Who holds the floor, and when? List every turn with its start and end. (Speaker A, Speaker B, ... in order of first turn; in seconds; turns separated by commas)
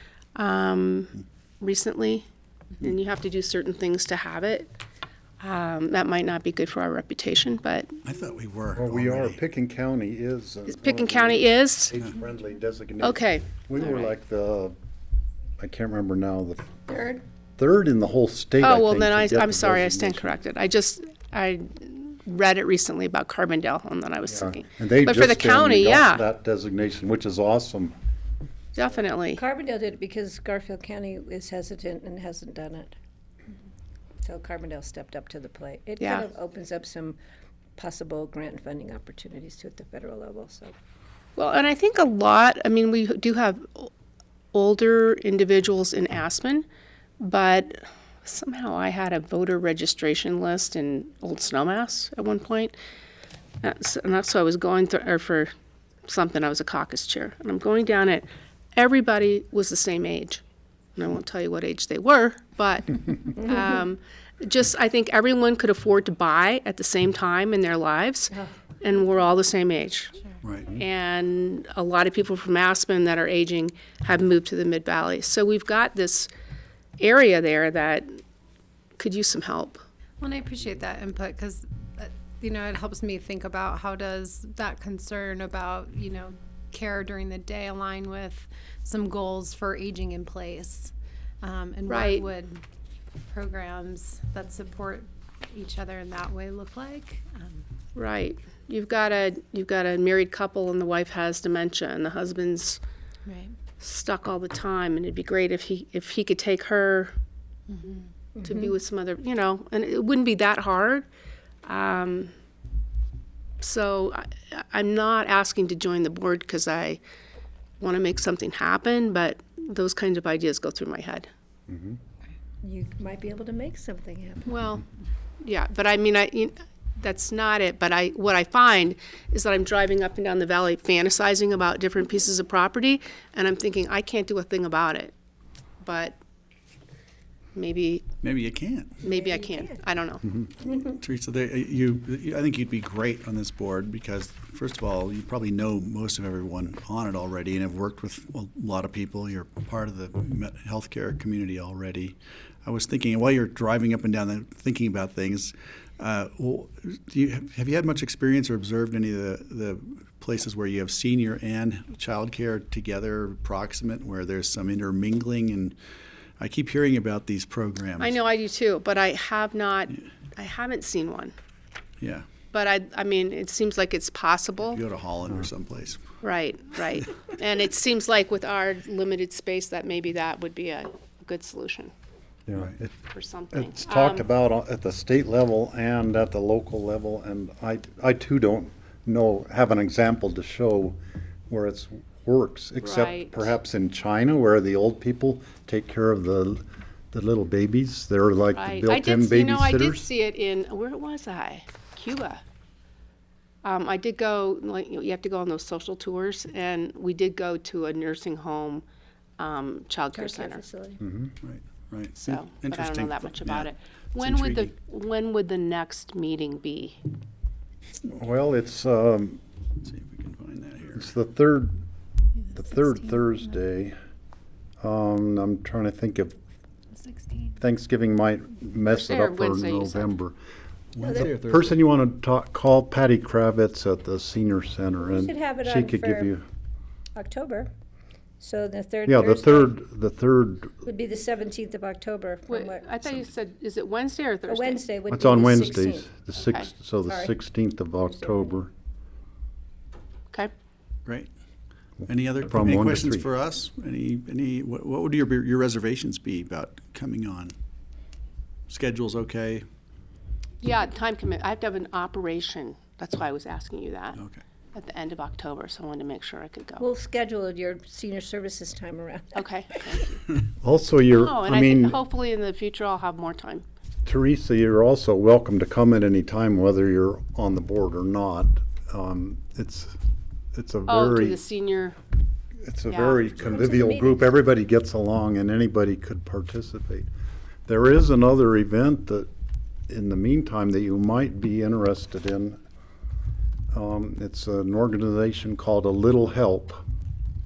Speaker A: 0.3-2.3, Speaker A: 2.8-4.7, Speaker A: 5.4-8.0, Speaker B: 8.0-9.4, Speaker C: 8.8-14.8, Speaker A: 10.7-11.9, Speaker A: 13.0-14.1, Speaker C: 15.6-16.9, Speaker D: 16.9-17.2, Speaker C: 17.6-20.4, Speaker A: 18.6-26.2, Speaker C: 24.3-27.9, Speaker A: 28.7-29.4, Speaker D: 29.3-33.0, Speaker D: 34.2-37.2, Speaker A: 36.0-36.3, Speaker D: 37.8-40.8, Speaker A: 41.4-43.9, Speaker A: 44.5-46.6, Speaker A: 47.2-52.7, Speaker A: 53.6-55.5, Speaker A: 56.1-60.4, Speaker A: 61.0-70.1, Speaker E: 70.2-70.4, Speaker B: 70.4-70.8, Speaker A: 70.7-76.3, Speaker A: 77.0-78.2, Speaker A: 79.0-79.8, Speaker E: 80.2-92.6, Speaker A: 91.9-92.3, Speaker E: 93.3-97.7, Speaker A: 98.0-102.8, Speaker E: 103.3-103.6, Speaker A: 103.8-107.1, Speaker E: 107.7-108.1, Speaker D: 108.4-108.8, Speaker A: 108.4-111.1, Speaker A: 111.6-112.3, Speaker A: 113.6-117.0, Speaker A: 117.8-121.3, Speaker C: 121.7-122.0, Speaker D: 122.6-124.6, Speaker A: 124.5-124.8, Speaker A: 125.4-135.1, Speaker A: 135.8-136.2, Speaker A: 137.6-138.1, Speaker B: 138.2-139.0, Speaker A: 139.0-140.2, Speaker D: 139.0-139.7, Speaker B: 141.0-165.8, Speaker B: 166.4-168.2, Speaker A: 168.0-171.3, Speaker B: 172.0-172.3, Speaker A: 172.5-174.8, Speaker B: 174.7-176.0, Speaker A: 176.2-181.9, Speaker C: 182.5-182.9, Speaker A: 183.1-184.3, Speaker C: 183.5-191.0, Speaker C: 191.5-200.1, Speaker A: 192.8-193.6, Speaker A: 198.5-202.4, Speaker A: 203.6-208.8, Speaker A: 209.4-210.7, Speaker D: 210.1-211.0, Speaker C: 211.0-211.3, Speaker B: 211.4-214.7, Speaker A: 212.2-217.0, Speaker C: 218.1-219.4, Speaker B: 219.8-221.1, Speaker C: 220.9-221.8, Speaker E: 222.5-223.3, Speaker C: 222.5-224.0, Speaker C: 224.8-226.3, Speaker E: 227.0-227.6, Speaker C: 227.6-230.3, Speaker A: 228.9-230.2, Speaker B: 230.9-231.8, Speaker D: 231.0-231.3, Speaker C: 231.1-236.4, Speaker D: 235.0-236.3, Speaker D: 237.2-237.7, Speaker D: 238.4-239.8, Speaker C: 239.1-240.8, Speaker D: 240.8-242.9, Speaker A: 242.5-244.8, Speaker D: 244.5-246.1, Speaker C: 245.1-248.7, Speaker A: 246.4-246.7, Speaker D: 247.1-247.3, Speaker D: 248.0-248.6, Speaker B: 252.1-257.5, Speaker C: 252.4-253.3, Speaker B: 258.7-259.6, Speaker A: 260.6-264.2, Speaker B: 264.2-264.4, Speaker A: 264.7-266.8, Speaker D: 266.8-269.3, Speaker A: 269.3-270.2, Speaker C: 270.6-272.0, Speaker A: 271.1-273.6, Speaker C: 274.1-280.0, Speaker C: 280.5-281.4, Speaker A: 280.9-282.0, Speaker C: 282.6-287.1, Speaker A: 282.9-283.3, Speaker D: 283.4-284.3, Speaker C: 287.7-289.3, Speaker C: 289.9-292.6, Speaker C: 293.7-296.8